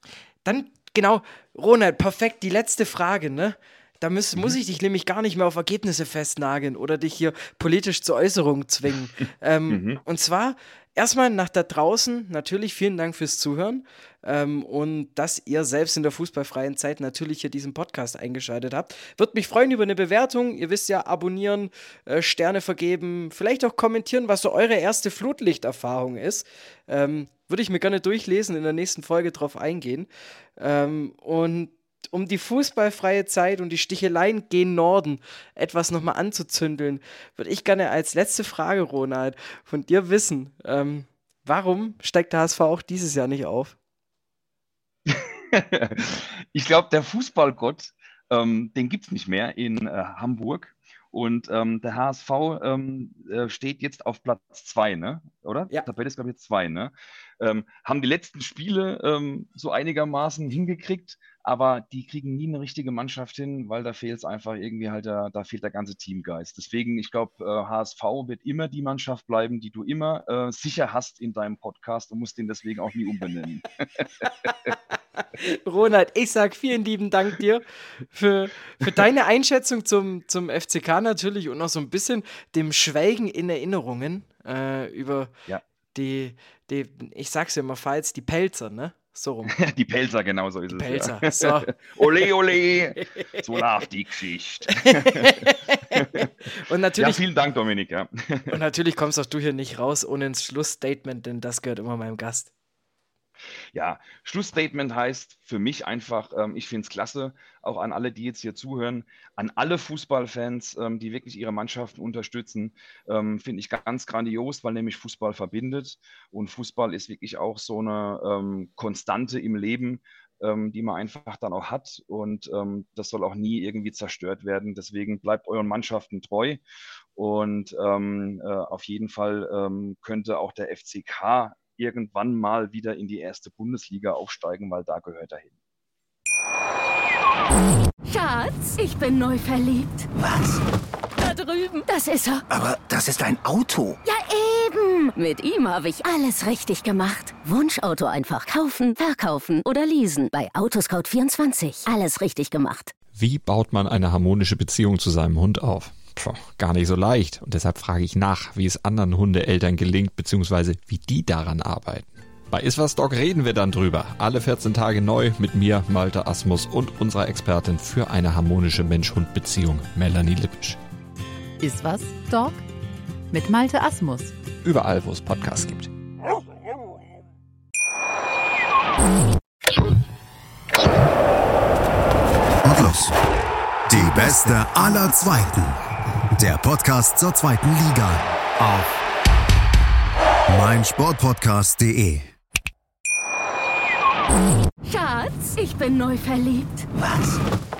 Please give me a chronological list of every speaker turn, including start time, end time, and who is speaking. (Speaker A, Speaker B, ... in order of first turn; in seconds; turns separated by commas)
Speaker A: 0.4-43.8, Speaker B: 9.7-10.0, Speaker B: 45.0-74.0, Speaker A: 74.7-85.3, Speaker A: 85.9-89.5, Speaker B: 89.5-96.3, Speaker A: 90.7-91.7, Speaker A: 94.7-97.2, Speaker B: 97.0-98.5, Speaker A: 98.5-102.5, Speaker B: 103.7-126.6, Speaker B: 127.2-135.5, Speaker C: 138.0-140.1, Speaker D: 140.2-140.6, Speaker C: 141.2-142.4, Speaker D: 142.5-144.0, Speaker C: 144.0-152.9, Speaker E: 153.1-170.8, Speaker F: 171.6-172.6, Speaker F: 173.3-174.3, Speaker E: 174.6-175.9, Speaker G: 182.6-183.1, Speaker G: 183.9-185.8, Speaker G: 186.4-188.9, Speaker G: 190.5-192.3, Speaker C: 194.8-196.9, Speaker D: 196.9-197.4